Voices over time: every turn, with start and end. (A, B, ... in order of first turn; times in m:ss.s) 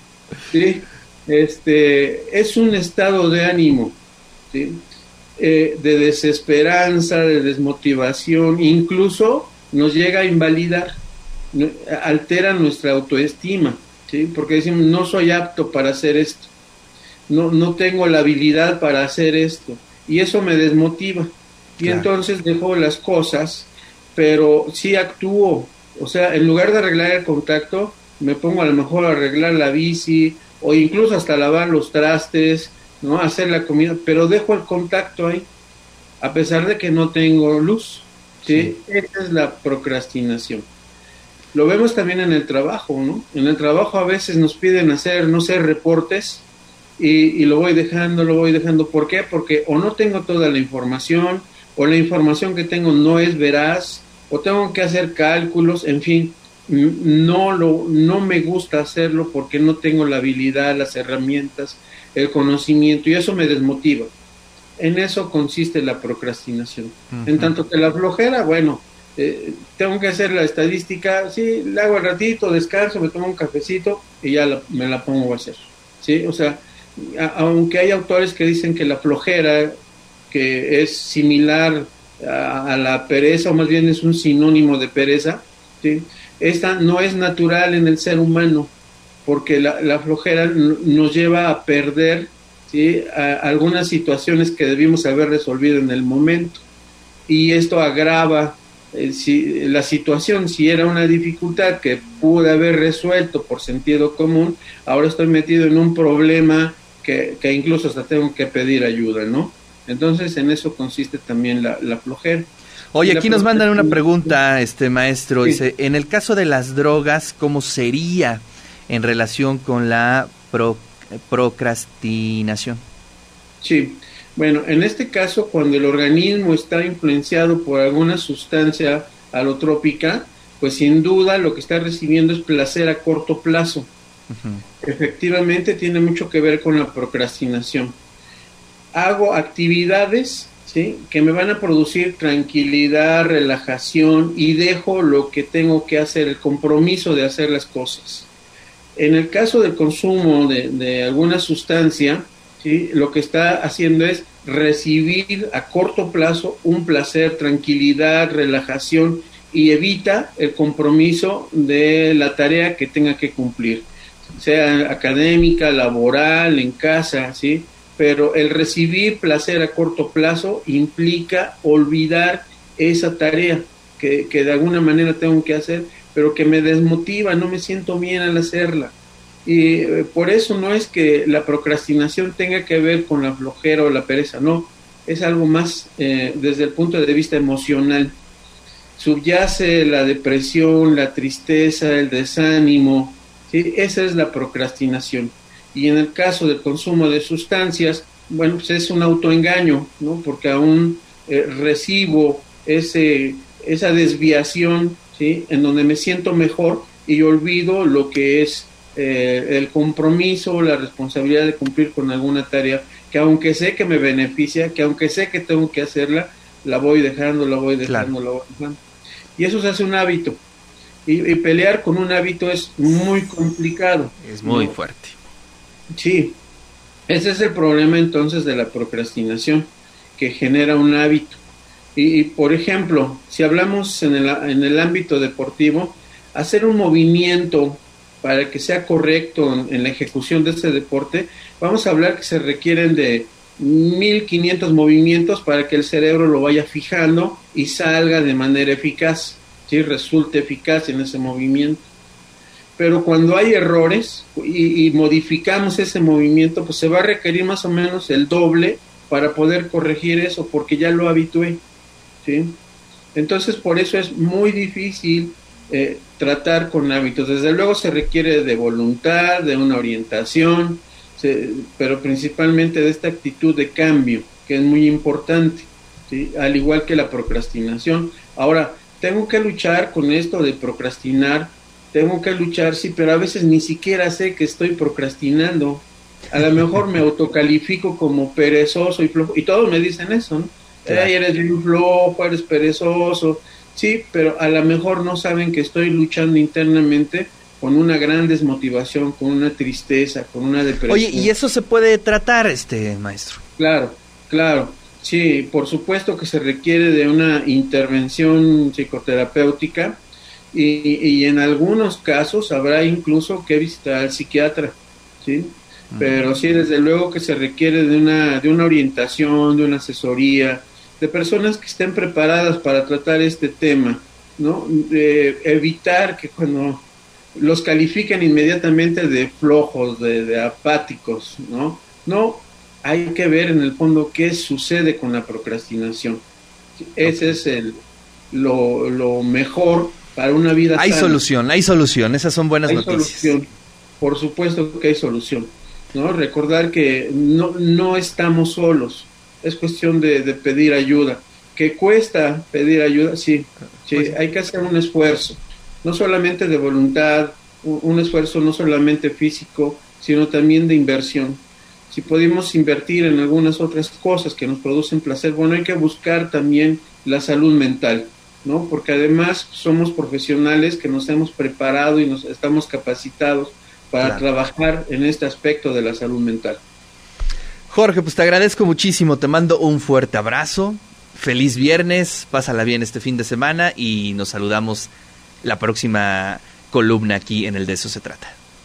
0:00.5-0:04.0 A
0:04.5-0:04.8 A
0:05.4-0:11.0 A
0:11.5-0:16.5 A
0:17.3-0:35.5 A
0:21.8-0:22.1 B
0:36.2-0:40.7 A
0:38.5-0:38.8 B
0:41.5-0:46.4 A
0:47.0-1:04.1 A
1:04.8-1:19.7 A
1:07.1-1:07.5 B
1:20.3-1:28.7 A
1:29.2-1:36.6 A
1:37.3-1:52.5 A
1:52.9-2:02.8 B
1:53.0-1:54.4 A
2:03.6-2:13.9 A
2:14.3-2:14.6 B
2:14.8-2:18.0 A
2:18.9-2:28.3 A
2:29.0-3:08.2 A
3:08.9-3:38.8 A
3:37.8-3:38.1 B
3:39.4-3:40.4 A
3:41.0-3:44.7 A
3:44.2-3:45.2 B
3:45.9-3:46.4 A
3:47.1-3:51.4 A
3:51.9-4:11.8 A
4:12.8-4:21.6 A
4:22.2-4:22.6 A
4:23.1-5:01.3 A
4:50.8-4:51.1 B
5:00.9-5:03.4 B
5:03.6-5:36.2 A
5:15.9-5:16.3 B
5:36.8-5:37.8 A
5:37.0-5:37.4 B
5:38.3-5:41.2 A
5:40.7-5:43.4 B
5:42.6-5:43.5 A
5:44.0-6:16.6 A
5:53.9-5:54.2 B
6:17.7-6:24.9 B
6:25.4-6:28.4 B